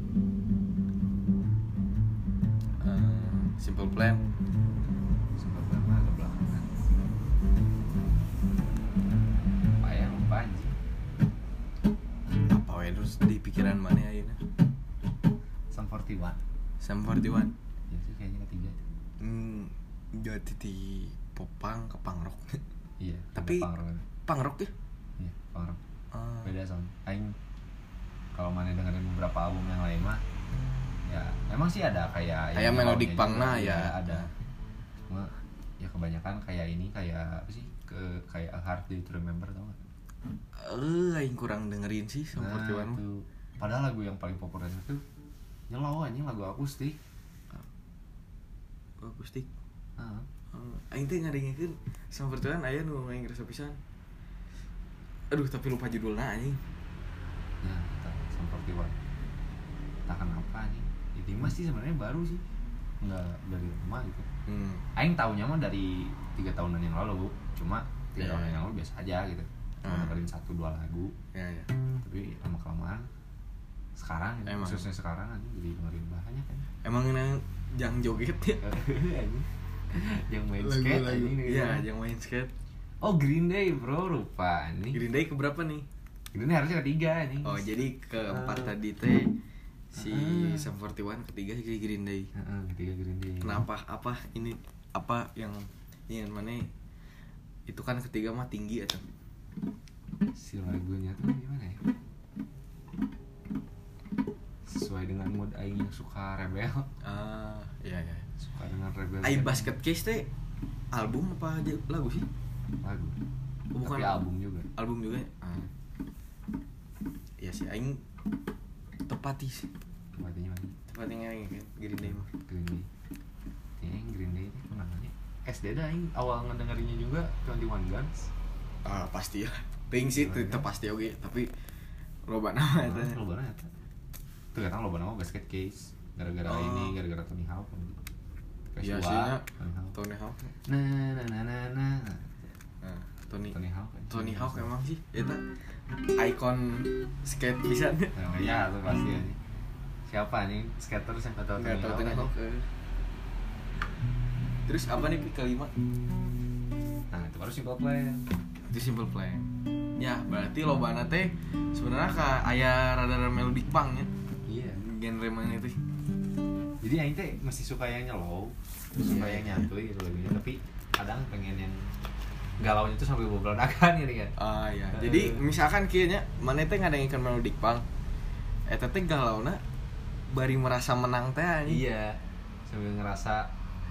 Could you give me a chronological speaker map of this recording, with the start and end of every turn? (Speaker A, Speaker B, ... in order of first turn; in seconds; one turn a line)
Speaker A: 2.8-4.2
Speaker B: 5.4-6.7
Speaker B: 9.8-10.8
Speaker A: 12.5-14.4
Speaker B: 15.7-16.4
Speaker A: 16.8-17.5
Speaker B: 17.9-18.8
Speaker A: 19.2-22.6
Speaker B: 23.0-24.1
Speaker A: 23.4-23.7
Speaker A: 24.2-24.7
Speaker B: 25.2-25.8
Speaker A: 26.1-26.5
Speaker B: 26.4-27.4
Speaker B: 28.3-30.2
Speaker B: 31.1-34.3
Speaker A: 32.5-34.3
Speaker B: 35.1-39.8
Speaker A: 40.5-43.0
Speaker B: 42.3-45.0
Speaker B: 45.7-47.0
Speaker A: 49.0-49.5
Speaker B: 50.0-50.3
Speaker A: 50.5-53.8
Speaker A: 55.3-56.6
Speaker B: 57.6-59.0
Speaker B: 60.1-62.4
Speaker B: 63.0-64.3
Speaker A: 64.5-64.9
Speaker B: 65.0-71.2
Speaker A: 68.2-68.6
Speaker A: 69.8-70.2
Speaker A: 71.3-71.7
Speaker B: 72.0-73.1
Speaker B: 74.0-76.7
Speaker A: 74.5-74.9
Speaker A: 76.8-78.6
Speaker B: 78.6-81.9
Speaker A: 80.6-82.5
Speaker B: 83.0-85.0
Speaker A: 84.9-85.9
Speaker B: 86.3-88.7
Speaker A: 87.4-89.3
Speaker A: 89.9-92.3
Speaker B: 90.0-90.7
Speaker B: 92.3-93.7
Speaker A: 93.4-96.7
Speaker A: 97.7-99.0
Speaker B: 100.3-101.8
Speaker B: 104.7-106.9
Speaker A: 107.0-108.3
Speaker B: 108.4-109.8
Speaker A: 109.2-110.3
Speaker A: 110.9-112.3
Speaker B: 112.8-113.2
Speaker A: 113.7-114.2
Speaker B: 113.8-114.7
Speaker A: 114.8-115.7
Speaker A: 117.4-118.0
Speaker A: 119.0-119.7
Speaker B: 120.2-120.8
Speaker A: 120.9-122.3
Speaker B: 122.0-122.9
Speaker B: 123.8-128.3
Speaker A: 128.8-131.5
Speaker B: 130.2-130.7
Speaker A: 132.3-133.2
Speaker B: 132.8-133.7
Speaker B: 134.5-138.0
Speaker A: 136.5-136.9
Speaker B: 138.7-139.9
Speaker A: 138.8-140.5
Speaker B: 140.6-142.5
Speaker A: 142.8-143.6
Speaker B: 143.5-144.7
Speaker A: 144.1-145.5
Speaker A: 146.2-148.1
Speaker B: 148.2-149.4
Speaker B: 150.1-152.3
Speaker A: 151.6-152.7
Speaker A: 154.7-155.7
Speaker B: 157.1-158.3
Speaker A: 158.7-164.1
Speaker B: 164.5-164.8
Speaker A: 164.8-165.8
Speaker B: 166.8-171.9
Speaker A: 169.0-169.7
Speaker B: 172.6-174.3
Speaker A: 174.4-177.8
Speaker B: 174.9-175.4
Speaker A: 178.7-179.6
Speaker A: 180.3-181.8
Speaker B: 181.7-183.5